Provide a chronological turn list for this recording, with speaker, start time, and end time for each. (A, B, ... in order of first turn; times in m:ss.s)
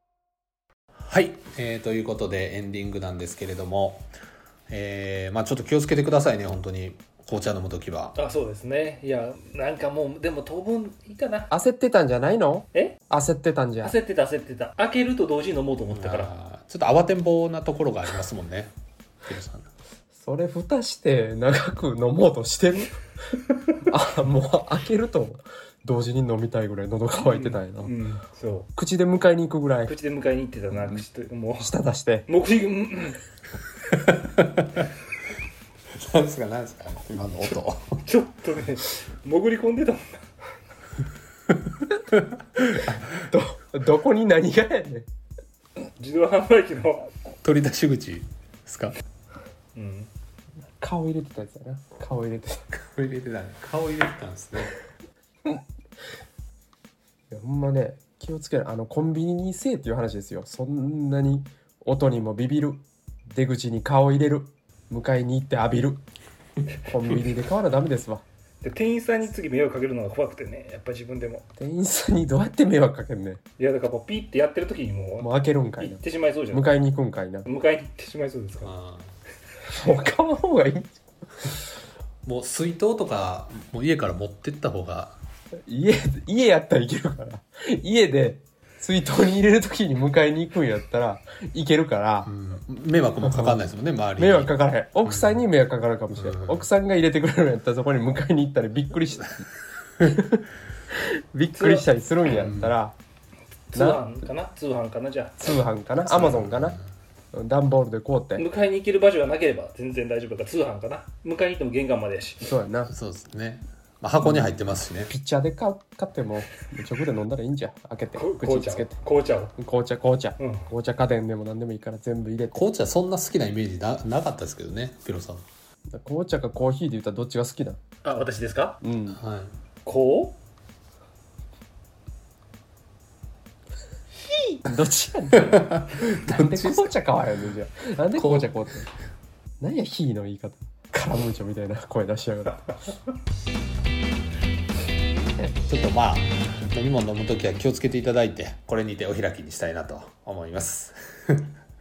0:01.1-0:04.1 A
0:04.7-0:08.2 A
0:08.2-0:11.5 B
0:11.5-0:14.0 C
0:13.8-0:16.3 B
0:15.9-0:18.7 A
0:19.2-0:19.7 A
0:20.2-0:23.0 C
0:23.5-0:23.8 B
0:23.8-0:27.9 C
0:27.1-0:28.7 B
0:28.8-0:29.9 C
0:29.8-0:31.7 B
0:31.6-0:32.3 C
0:32.3-0:33.2 B
0:34.0-0:34.8 A
0:35.9-0:38.0 A
0:38.0-0:40.2 B
0:42.8-0:45.1 C
0:46.0-0:47.1 B
0:47.4-0:49.0 A
0:49.8-0:50.1 B
0:50.8-0:52.6 C
0:52.7-0:54.8 A
0:57.3-1:06.0 C
1:06.8-1:08.2 C
1:08.6-1:11.4 B
1:11.6-1:13.4 C
1:13.6-1:16.8 B
1:15.2-1:17.5 C
1:17.4-1:18.7 B
1:18.6-1:19.1 A
1:19.7-1:21.0 C
1:22.2-1:25.2 A
1:25.7-1:32.3 C
1:32.2-1:35.4 A
1:33.2-1:33.6 C
1:34.2-1:39.4 C
1:36.2-1:36.7 A
1:40.0-1:43.0 C
1:41.6-1:41.9 B
1:42.3-1:42.8 A
1:43.7-1:45.4 B
1:43.7-1:44.1 C
1:45.4-1:46.8 C
1:46.1-1:46.8 A
1:47.3-1:48.5 C
1:48.4-1:52.4 B
1:52.4-1:52.9 C
1:52.9-1:55.1 A
1:55.1-1:59.0 C
1:58.1-1:59.6 B
1:59.6-2:02.6 C
2:00.4-2:00.7 B
2:02.5-2:05.4 A
2:05.9-2:07.8 C
2:08.0-2:08.8 B
2:08.8-2:09.2 C
2:09.1-2:09.6 A
2:09.8-2:10.4 B
2:14.6-2:18.9 C
2:15.4-2:17.0 A
2:18.1-2:18.6 A
2:19.6-2:22.8 C
2:25.7-2:31.5 A